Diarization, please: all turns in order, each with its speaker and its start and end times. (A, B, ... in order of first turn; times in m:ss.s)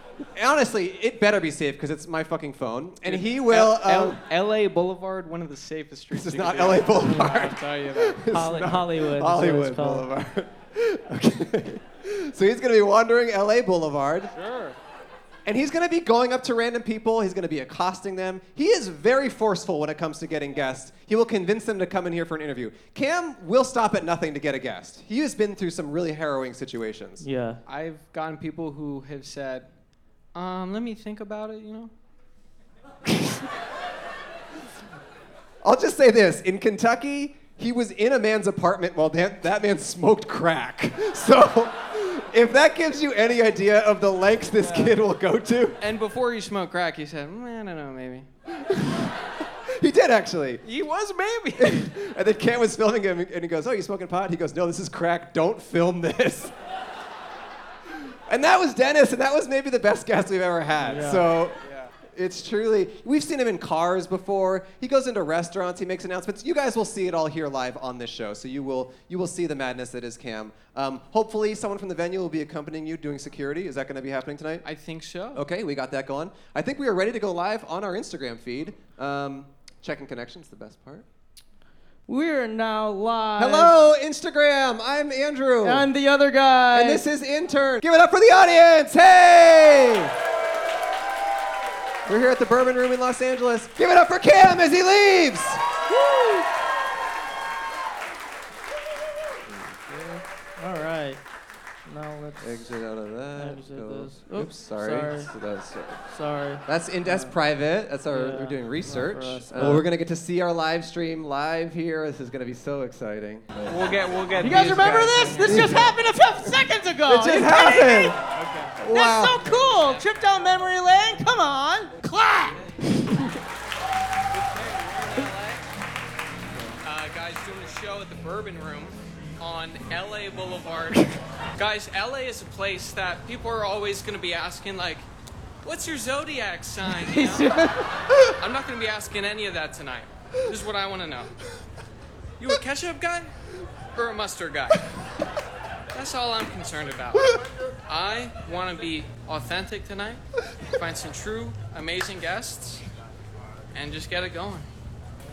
0:00.4-0:04.2 A
0:03.0-0:08.2 B
0:06.1-0:14.3 A
0:07.0-0:07.3 C
0:08.3-0:10.1 C
0:14.3-0:14.8 B
0:15.4-0:27.2 A
0:27.2-0:27.6 C
0:27.7-0:29.7 B
0:30.3-0:31.9 B
0:35.6-0:45.8 A
0:44.6-0:44.9 B
0:45.8-0:48.3 B
0:48.6-0:49.1 A
0:49.8-0:50.6 A
0:50.6-0:51.9 B
0:51.6-0:56.5 A
0:58.3-1:14.7 A
1:00.8-1:01.3 C
1:14.6-1:15.4 B
1:15.3-1:21.0 A
1:22.1-1:23.8 C
1:23.4-1:25.9 A
1:25.6-1:27.0 C
1:26.7-1:30.1 A
1:32.1-1:35.6 A
1:35.9-1:36.5 C
1:39.9-1:41.2 C
1:41.9-1:42.6 C
1:42.4-1:46.0 A
1:43.4-1:45.3 C
1:46.1-1:47.3 C
1:46.7-1:53.9 A
1:48.1-1:49.9 C
1:53.7-1:55.7 B
1:54.4-1:58.2 C
1:55.5-1:55.9 A
1:57.1-1:58.2 A
1:58.2-1:58.8 B
1:58.8-1:59.4 A
1:58.8-2:02.6 C
1:59.4-2:00.0 B
2:04.3-2:05.6 B
2:06.8-2:15.0 B
2:15.6-2:21.3 B
2:17.1-2:17.7 C
2:22.4-2:23.3 B
2:24.0-2:24.8 B
2:25.9-2:30.2 B
2:30.8-2:32.8 B
2:33.7-2:34.7 B